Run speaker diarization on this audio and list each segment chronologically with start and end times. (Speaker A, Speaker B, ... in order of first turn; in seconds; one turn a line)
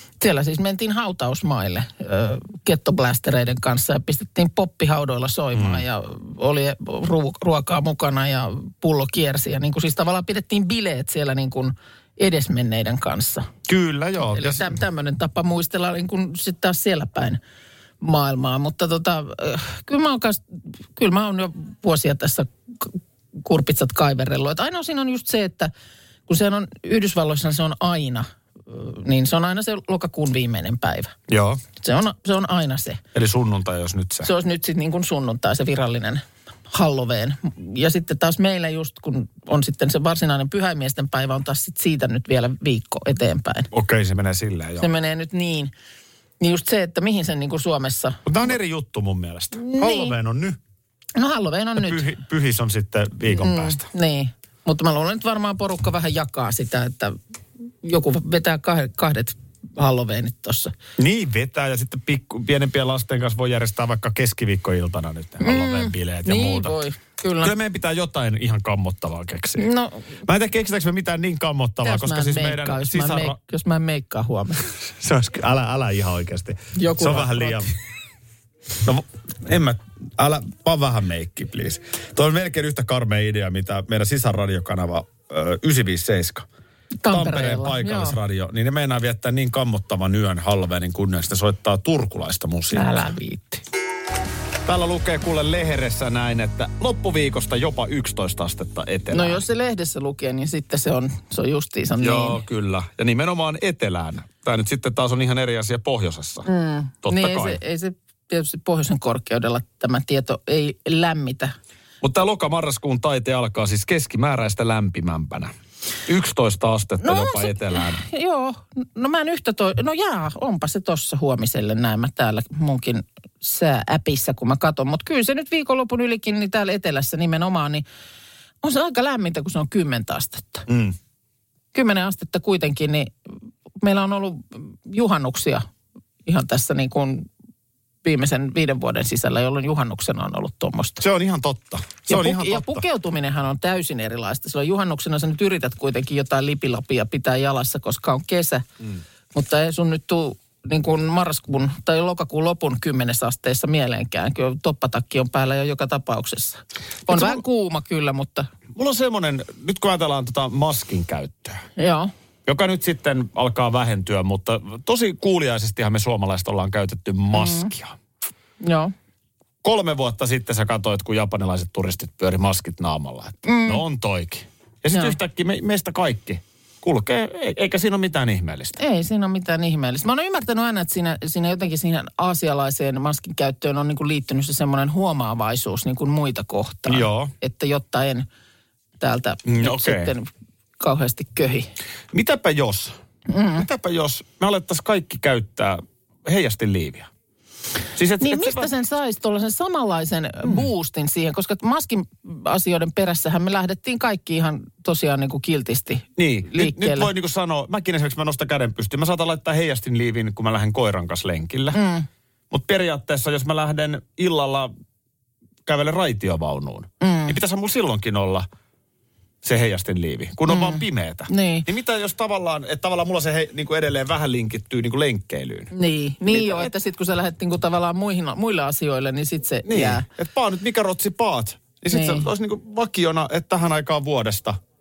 Speaker A: 0.2-13.5
Speaker B: 5.5-5.8
Speaker B: 13.7-14.8
Speaker A: 14.3-17.4
Speaker A: 18.0-20.4
Speaker A: 20.9-25.7
Speaker A: 26.3-31.1
Speaker B: 31.3-31.6
Speaker A: 31.8-33.0
Speaker B: 33.1-34.3
Speaker A: 34.2-43.7
Speaker B: 43.7-44.9
Speaker A: 44.8-45.7
Speaker A: 46.4-48.2
Speaker B: 48.2-50.6
Speaker A: 49.6-50.1
Speaker A: 51.2-52.0
Speaker B: 51.8-53.9
Speaker A: 53.3-57.2
Speaker A: 57.8-60.7
Speaker B: 61.0-66.8
Speaker A: 65.4-67.5
Speaker B: 67.4-69.7
Speaker A: 69.6-70.0
Speaker B: 70.2-73.4
Speaker A: 71.8-74.7
Speaker B: 74.8-77.7
Speaker A: 76.8-77.6
Speaker B: 78.8-86.5
Speaker A: 87.0-88.2
Speaker B: 87.1-93.1
Speaker A: 92.7-93.6
Speaker B: 94.7-99.4
Speaker A: 99.1-102.4
Speaker B: 102.0-106.5
Speaker A: 106.5-111.5
Speaker B: 107.0-107.6
Speaker B: 112.0-115.5
Speaker B: 116.0-118.0
Speaker A: 117.0-127.8
Speaker A: 128.6-130.7
Speaker B: 130.7-131.0
Speaker A: 131.7-133.1
Speaker A: 133.8-135.7
Speaker A: 136.2-137.3
Speaker A: 138.0-141.0
Speaker B: 141.0-142.8
Speaker A: 142.1-148.7
Speaker A: 149.3-158.5
Speaker B: 157.1-157.4
Speaker B: 158.7-161.7
Speaker A: 161.8-162.1
Speaker B: 162.5-168.0
Speaker A: 167.3-167.7
Speaker A: 168.6-168.9
Speaker B: 169.6-178.8
Speaker A: 173.4-173.8
Speaker A: 174.9-175.2
Speaker A: 178.8-188.3
Speaker B: 186.9-187.3
Speaker A: 189.0-191.7
Speaker B: 189.4-190.1
Speaker B: 192.1-193.0
Speaker A: 193.3-193.7
Speaker B: 193.6-197.1
Speaker B: 197.9-198.7
Speaker A: 198.2-207.1
Speaker B: 206.2-211.8
Speaker A: 211.7-212.1
Speaker B: 212.5-214.7
Speaker B: 215.7-218.5
Speaker A: 217.0-217.4
Speaker B: 219.4-225.7
Speaker A: 220.5-221.7
Speaker A: 225.7-230.1
Speaker B: 226.3-226.7
Speaker B: 229.7-234.6
Speaker A: 231.9-232.3